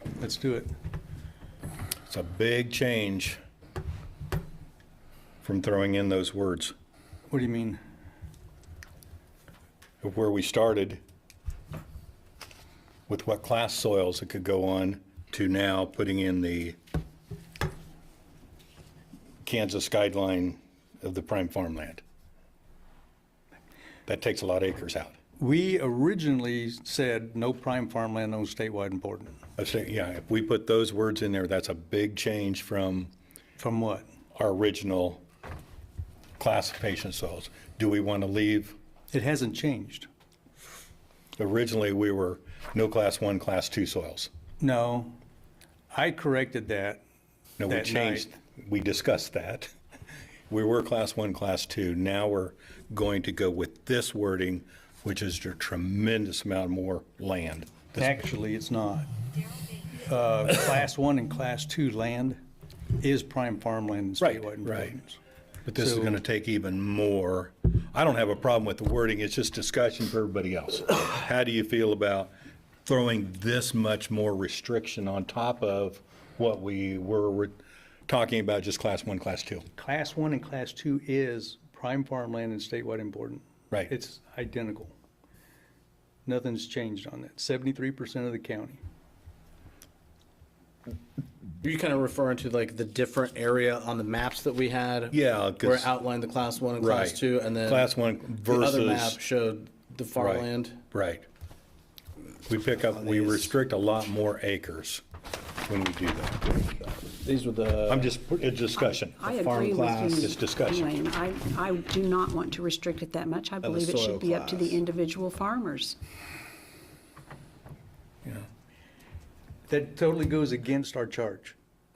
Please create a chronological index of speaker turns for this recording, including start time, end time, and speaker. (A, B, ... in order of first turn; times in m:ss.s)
0:00.2-0:00.7 A
0:02.1-0:03.4 B
0:05.4-0:06.7 B
0:07.3-0:07.8 A
0:10.0-0:11.0 B
0:13.1-0:16.8 B
0:19.4-0:22.0 B
0:24.1-0:25.1 B
0:25.4-0:29.4 A
0:29.6-0:33.1 B
0:33.6-0:34.1 A
0:34.4-0:35.2 B
0:36.4-0:38.8 B
0:39.1-0:40.1 A
0:41.4-0:44.3 B
0:44.6-0:45.2 A
0:45.9-0:47.0 A
0:47.6-0:49.7 B
0:47.7-0:48.3 A
0:50.5-0:58.2 B
0:58.0-0:59.1 A
1:00.0-1:02.4 A
1:03.0-1:05.2 A
1:04.2-1:05.0 B
1:05.6-1:12.3 B
1:05.8-1:06.2 A
1:12.8-1:17.6 B
1:18.1-1:19.6 B
1:19.8-1:24.9 A
1:26.2-1:28.8 A
1:31.6-1:40.8 C
1:35.1-1:35.9 B
1:36.8-1:39.2 B
1:40.2-1:41.2 B
1:42.5-1:45.0 B
1:43.1-1:43.5 C
1:45.6-1:46.6 B
1:47.0-1:48.2 C
1:47.9-1:49.2 B
1:48.9-1:56.0 D
1:49.2-1:50.4 C
1:50.2-1:51.0 B
1:53.6-1:54.8 C
1:59.7-2:01.5 A